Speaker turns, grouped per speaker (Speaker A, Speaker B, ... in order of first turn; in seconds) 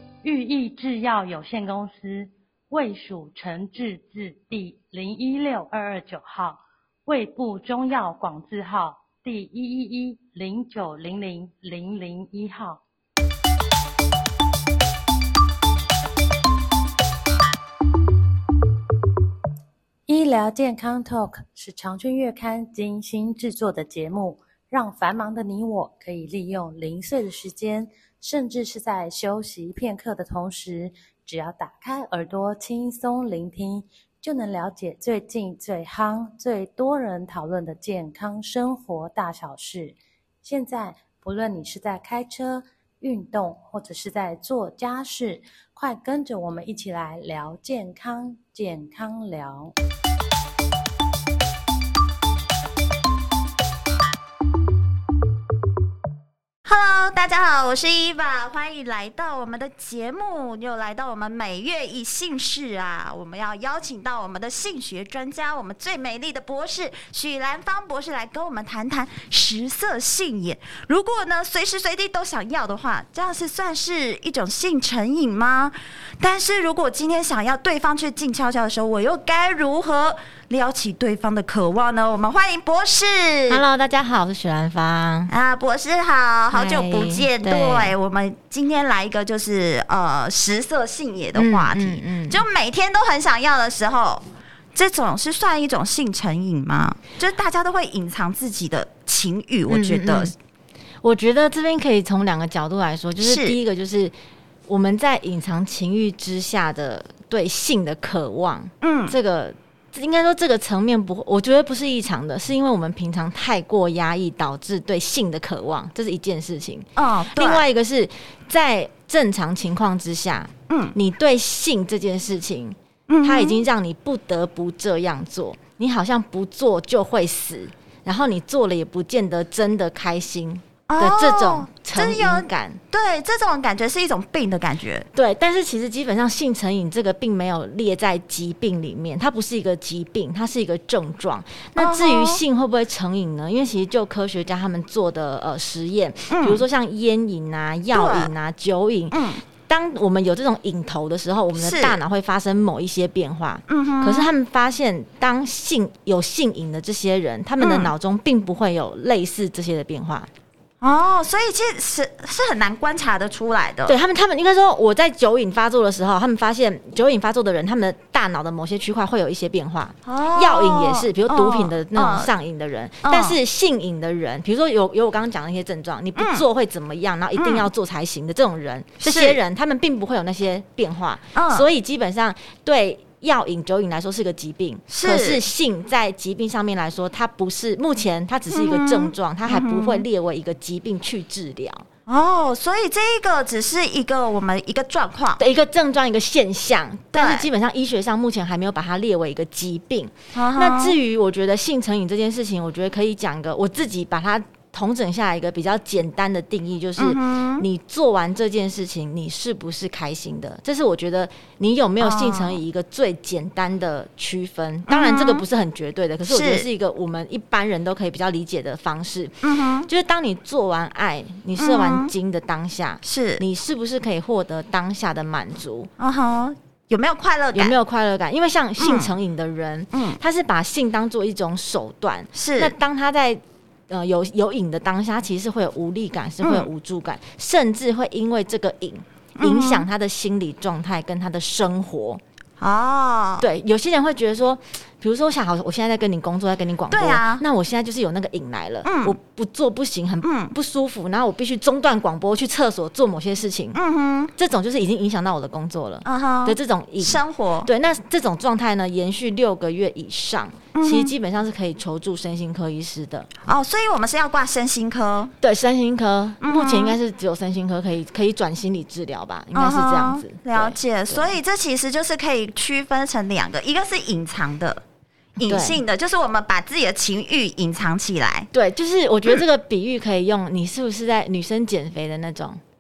Speaker A: 0.2-12.8, 20.1-49.7
Speaker B: 56.6-83.6, 85.3-100.3, 103.2-103.6, 108.8-109.2, 117.0-117.7, 120.7-121.0, 123.1-123.6, 130.9-135.1, 141.8-142.4, 146.3-146.6, 147.9-148.3, 149.1-149.4, 151.6-152.0, 153.7-154.3, 157.6-157.9, 160.8-164.0, 170.1-172.3, 173.0-173.4, 176.2-176.4, 177.4-177.7, 179.0-179.4, 181.3-181.7, 184.9-185.4, 188.5-190.1, 192.1-195.4, 197.1-197.5, 200.3-201.0, 207.0-207.7, 212.0-212.6, 214.9-215.4, 216.3-216.7, 219.4-219.9, 221.6-222.1, 223.0-223.4, 226.0-227.8, 228.8-229.1, 229.9-230.2, 232.3-232.7, 236.4-236.7, 239.4-239.9, 242.6-243.5, 246.9-247.4, 248.8-249.2, 250.2-250.5, 253.8-254.3, 256.1-257.7, 260.8-261.1, 263.4-265.3, 266.4-267.0, 269.5-274.8, 275.4-278.5
Speaker C: 83.5-85.3, 86.5-87.9, 91.3-92.4, 99.7-100.3, 101.0-104.1, 104.7-132.8, 135.1-160.3, 163.9-191.9, 195.4-225.9, 227.6-242.2, 243.4-253.8, 254.4-263.3, 265.4-271.3, 275.4-275.8, 278.5-282.6